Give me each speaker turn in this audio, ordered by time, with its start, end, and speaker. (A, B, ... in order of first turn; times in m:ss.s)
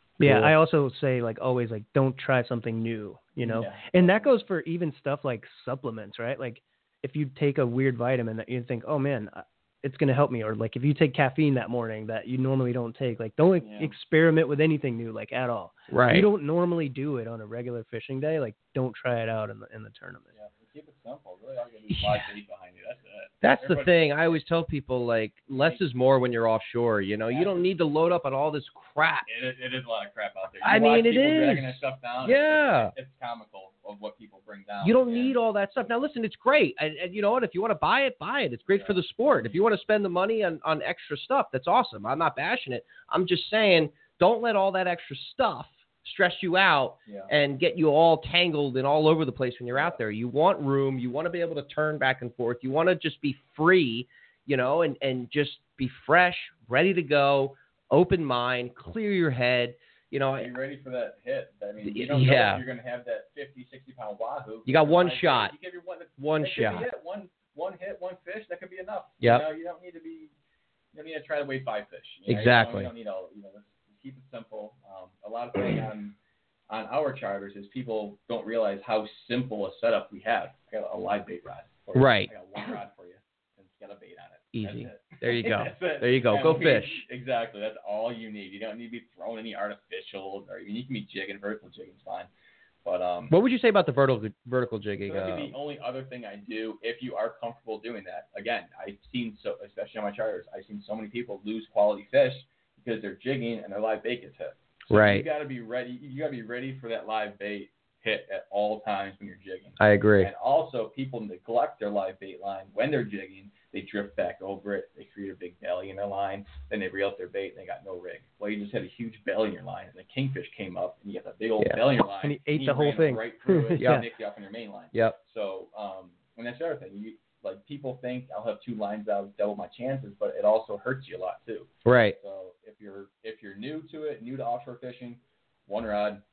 0:00.2-0:20.3 A
0:00.2-0:00.5 B
0:03.4-0:04.3 C
0:13.6-0:13.9 C
0:15.9-0:16.3 B
0:20.3-0:24.3 C
0:23.4-0:29.3 B
0:25.5-0:25.8 C
0:27.3-0:27.7 C
0:29.2-0:35.4 C
0:30.6-0:32.9 B
0:34.8-1:00.5 B
0:38.7-0:39.6 C
0:47.0-0:47.3 C
1:00.4-1:10.3 C
1:01.8-1:02.6 B
1:04.6-1:05.5 B
1:06.2-1:06.8 B
1:09.2-1:09.4 B
1:10.9-1:16.2 C
1:12.3-1:12.9 B
1:16.7-1:32.3 C
1:21.9-1:22.3 B
1:24.5-1:27.0 B
1:32.8-1:33.3 C
1:33.3-1:35.6 B
1:35.1-2:16.2 C
1:44.9-1:45.2 B
1:49.8-1:50.3 B
2:02.2-2:04.0 A
2:03.8-2:04.0 B
2:04.9-2:05.2 B
2:11.8-2:12.2 B